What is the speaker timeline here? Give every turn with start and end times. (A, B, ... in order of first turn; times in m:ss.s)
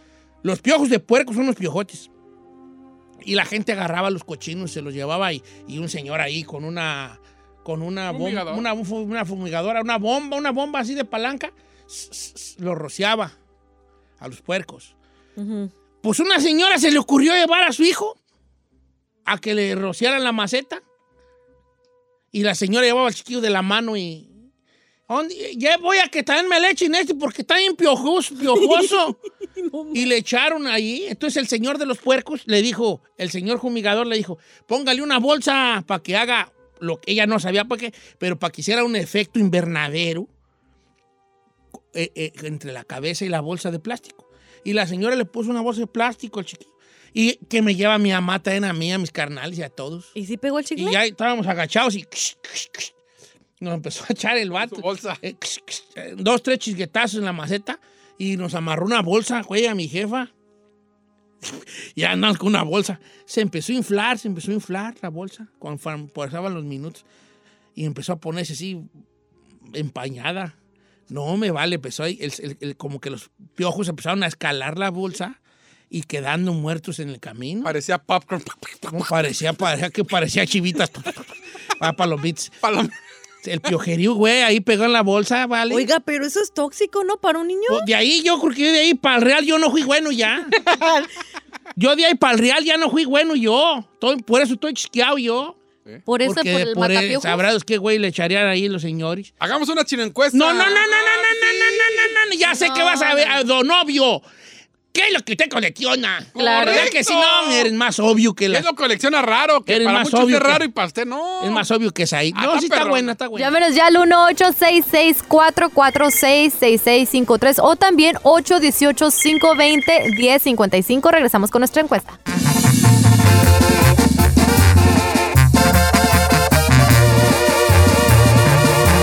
0:00.4-0:02.1 A
0:03.2-0:13.3 A
0:08.1-0:08.6 B
0:14.2-0:14.9 A
0:15.4-0:15.7 C
0:16.0-0:18.2 A
0:19.2-0:20.8 A
0:22.3-0:24.3 A
0:25.1-0:29.2 A
0:28.5-0:28.8 C
0:29.6-0:30.0 C
0:29.9-0:40.3 A
0:41.9-0:50.1 A
0:50.1-0:51.0 C
0:50.8-0:52.9 A
0:53.6-1:00.3 A
0:54.6-0:55.2 B
1:01.4-1:07.0 A
1:07.8-1:08.9 A
1:09.7-1:10.5 A
1:11.1-1:15.4 A
1:15.9-1:17.7 A
1:17.6-1:19.1 B
1:18.9-1:22.6 A
1:22.6-1:22.9 B
1:23.4-1:25.9 A
1:25.7-1:27.8 C
1:27.7-1:30.5 A
1:30.6-1:31.1 C
1:31.8-1:35.6 A
1:36.0-1:37.4 C
1:36.2-1:39.3 A
1:39.4-1:42.1 B
1:40.3-1:44.2 A
1:42.5-1:43.4 C
1:44.9-1:48.7 A
1:46.3-1:47.7 B
1:46.4-1:46.9 C
1:48.5-1:51.7 B
1:49.7-1:50.6 A
1:51.4-1:53.5 A
1:52.3-1:53.1 B
1:53.3-2:02.2 C